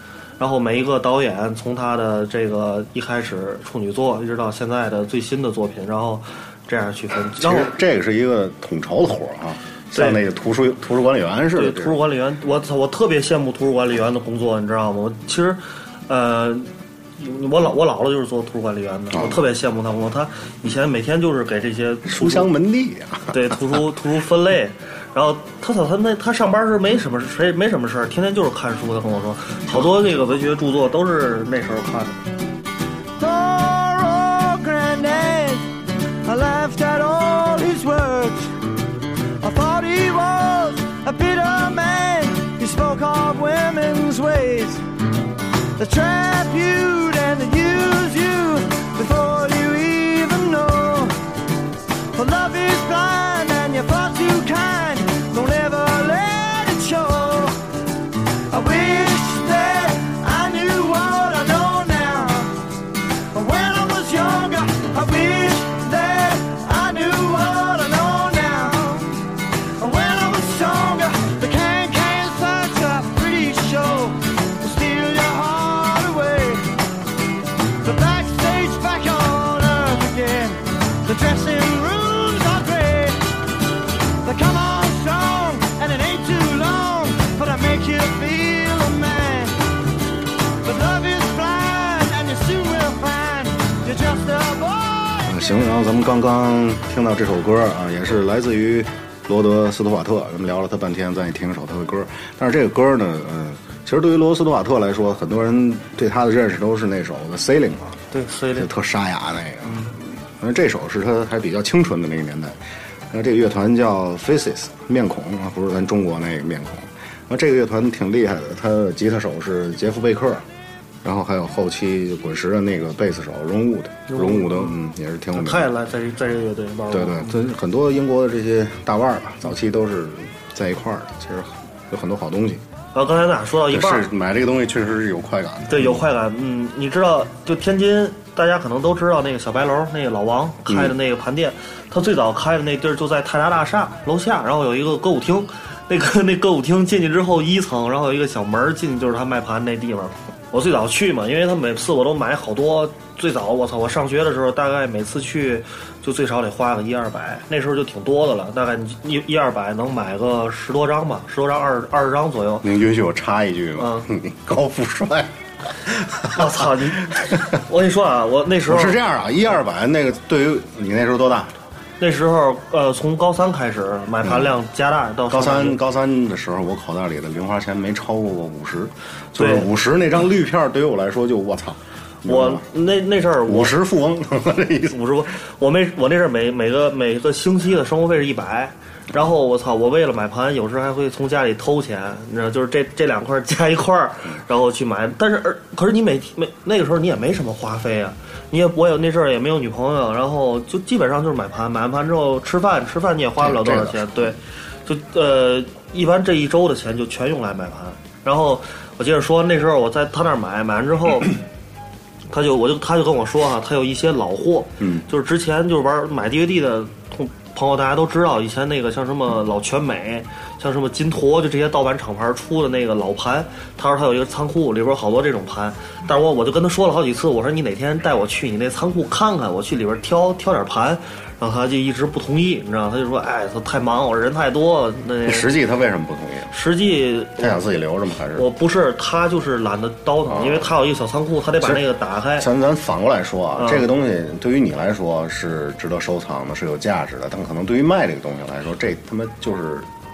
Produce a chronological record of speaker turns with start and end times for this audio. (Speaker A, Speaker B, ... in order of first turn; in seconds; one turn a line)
Speaker A: 0.4-7.7
Speaker B: 7.3-12.0
Speaker A: 9.9-10.2
Speaker A: 11.5-22.5
Speaker B: 19.1-19.4
Speaker B: 22.0-23.7
Speaker A: 23.3-32.2
Speaker C: 33.2-35.7
Speaker C: 36.2-38.5
Speaker C: 39.4-44.8
Speaker C: 45.8-51.1
Speaker C: 52.1-57.6
Speaker C: 58.5-62.5
Speaker C: 63.3-69.1
Speaker C: 69.8-76.7
Speaker C: 77.8-83.2
Speaker C: 84.2-89.6
Speaker C: 90.6-95.4
Speaker B: 95.2-108.0
Speaker A: 108.1-108.7
Speaker B: 108.5-112.6
Speaker A: 109.6-109.9
Speaker B: 113.1-120.5
Speaker B: 121.0-125.7
Speaker A: 124.1-124.7
Speaker A: 125.3-127.3
Speaker B: 126.9-132.6
Speaker A: 132.9-134.1
Speaker B: 133.7-136.0
Speaker A: 135.7-162.7
Speaker B: 140.7-140.9
Speaker B: 162.6-167.4
Speaker A: 163.8-164.1
Speaker A: 166.3-169.0
Speaker B: 168.6-171.5
Speaker A: 172.0-175.8
Speaker B: 174.2-174.5
Speaker B: 175.3-182.7
Speaker A: 179.4-179.7
Speaker A: 182.2-183.8
Speaker B: 183.4-185.0
Speaker A: 184.9-211.3
Speaker B: 203.4-204.4
Speaker A: 212.3-235.5
Speaker B: 214.8-215.0
Speaker B: 235.2-236.5
Speaker A: 236.5-237.6
Speaker B: 237.4-238.5
Speaker A: 238.3-242.5
Speaker B: 240.3-240.7
Speaker B: 241.6-249.9
Speaker A: 243.6-243.9